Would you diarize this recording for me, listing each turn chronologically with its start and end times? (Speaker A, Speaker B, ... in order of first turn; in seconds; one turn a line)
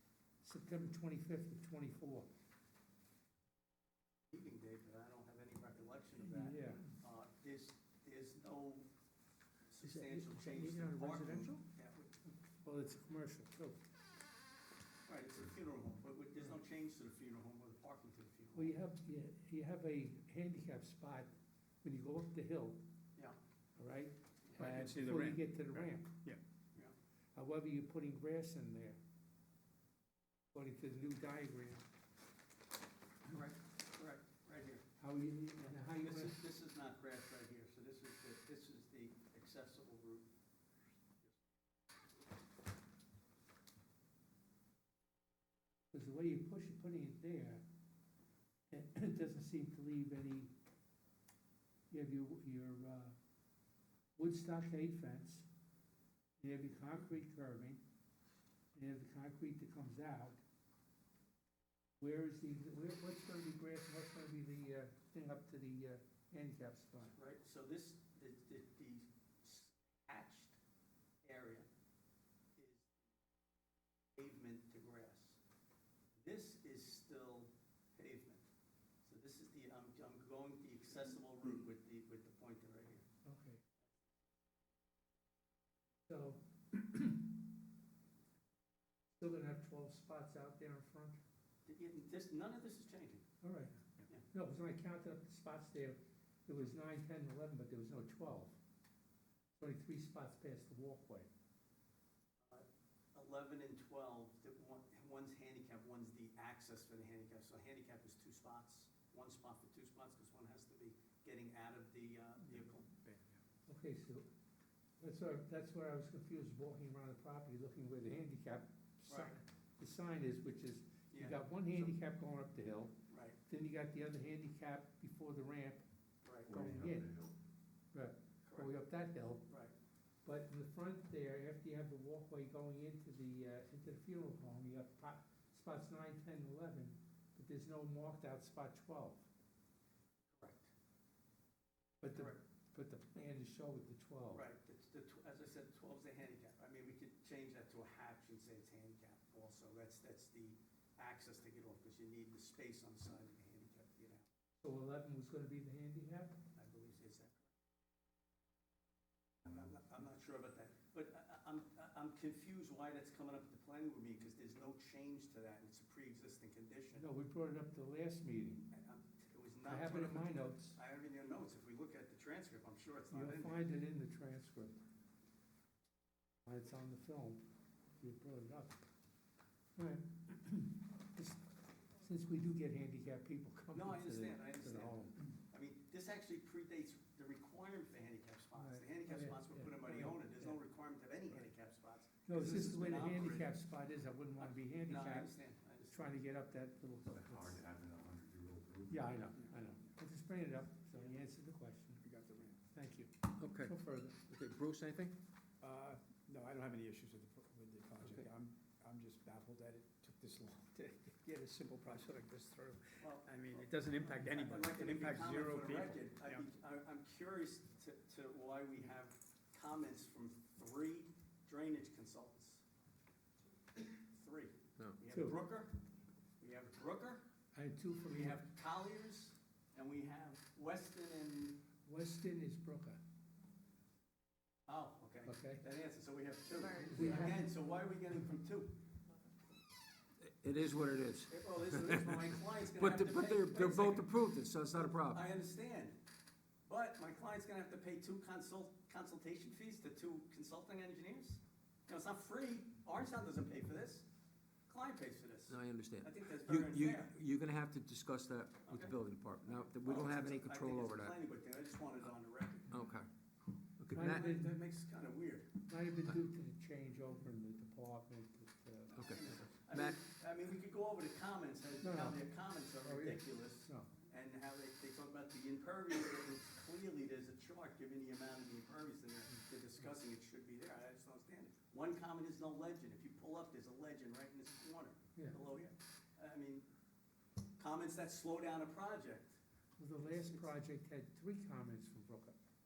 Speaker A: 0.4-2.3
Speaker B: 4.3-8.8
Speaker A: 6.2-6.9
Speaker B: 9.7-12.1
Speaker A: 9.8-11.6
Speaker A: 12.3-13.8
Speaker B: 15.1-18.7
Speaker A: 18.5-21.3
Speaker A: 21.8-22.8
Speaker A: 23.8-26.1
Speaker C: 24.6-26.4
Speaker A: 27.3-29.0
Speaker A: 30.5-31.8
Speaker B: 33.3-34.8
Speaker A: 35.0-36.4
Speaker B: 35.6-40.2
Speaker A: 45.9-47.6
Speaker A: 48.7-50.5
Speaker A: 51.9-53.1
Speaker A: 54.2-55.5
Speaker A: 56.4-57.8
Speaker A: 58.7-60.4
Speaker A: 62.0-67.1
Speaker B: 67.1-70.6
Speaker B: 71.2-71.7
Speaker B: 72.6-73.0
Speaker B: 74.1-75.4
Speaker B: 76.1-78.4
Speaker B: 79.0-83.0
Speaker A: 83.2-83.6
Speaker A: 86.1-87.4
Speaker A: 89.2-91.2
Speaker B: 91.7-93.3
Speaker A: 93.4-93.8
Speaker A: 94.3-98.5
Speaker A: 99.6-101.3
Speaker B: 102.5-112.9
Speaker C: 112.9-113.4
Speaker A: 113.7-114.3
Speaker A: 115.0-125.8
Speaker B: 119.1-119.4
Speaker B: 121.1-121.4
Speaker B: 123.1-123.4
Speaker B: 126.2-126.7
Speaker A: 126.5-127.3
Speaker D: 126.5-127.3
Speaker A: 127.9-129.5
Speaker B: 128.4-128.7
Speaker B: 129.5-129.7
Speaker A: 130.2-139.3
Speaker B: 140.3-140.7
Speaker A: 142.0-144.4
Speaker B: 142.1-142.4
Speaker B: 144.3-154.2
Speaker A: 154.6-156.3
Speaker B: 156.6-157.5
Speaker B: 159.4-167.0
Speaker A: 166.9-168.7
Speaker B: 168.7-173.6
Speaker A: 169.7-170.8
Speaker A: 173.1-174.8
Speaker A: 176.4-177.4
Speaker A: 178.0-178.8
Speaker A: 179.8-181.4
Speaker A: 182.0-185.2
Speaker B: 183.7-193.5
Speaker A: 188.6-190.6
Speaker A: 192.2-195.3
Speaker B: 194.4-196.1
Speaker A: 195.9-197.6
Speaker D: 197.1-199.0
Speaker A: 198.9-202.0
Speaker C: 202.0-202.6
Speaker A: 202.7-204.2
Speaker E: 203.4-203.7
Speaker E: 204.3-205.2
Speaker C: 205.6-216.4
Speaker B: 213.0-222.6
Speaker B: 223.8-225.8
Speaker A: 225.1-225.4
Speaker B: 226.4-227.2
Speaker A: 227.5-228.4
Speaker B: 228.1-231.6
Speaker A: 231.8-233.0
Speaker B: 234.7-238.8
Speaker A: 235.3-235.6
Speaker A: 236.8-237.4
Speaker E: 240.2-245.2
Speaker B: 241.3-245.9
Speaker B: 246.7-254.0
Speaker B: 254.7-257.1
Speaker E: 255.5-261.1
Speaker B: 258.6-258.9
Speaker B: 259.8-262.9
Speaker E: 262.7-263.1
Speaker E: 263.8-264.4
Speaker A: 263.9-264.5
Speaker B: 263.9-265.5
Speaker A: 265.7-269.4
Speaker B: 268.9-286.6
Speaker E: 268.9-270.0
Speaker A: 271.8-272.2
Speaker A: 272.7-273.9
Speaker B: 287.6-289.4
Speaker A: 289.8-292.4
Speaker B: 290.1-290.5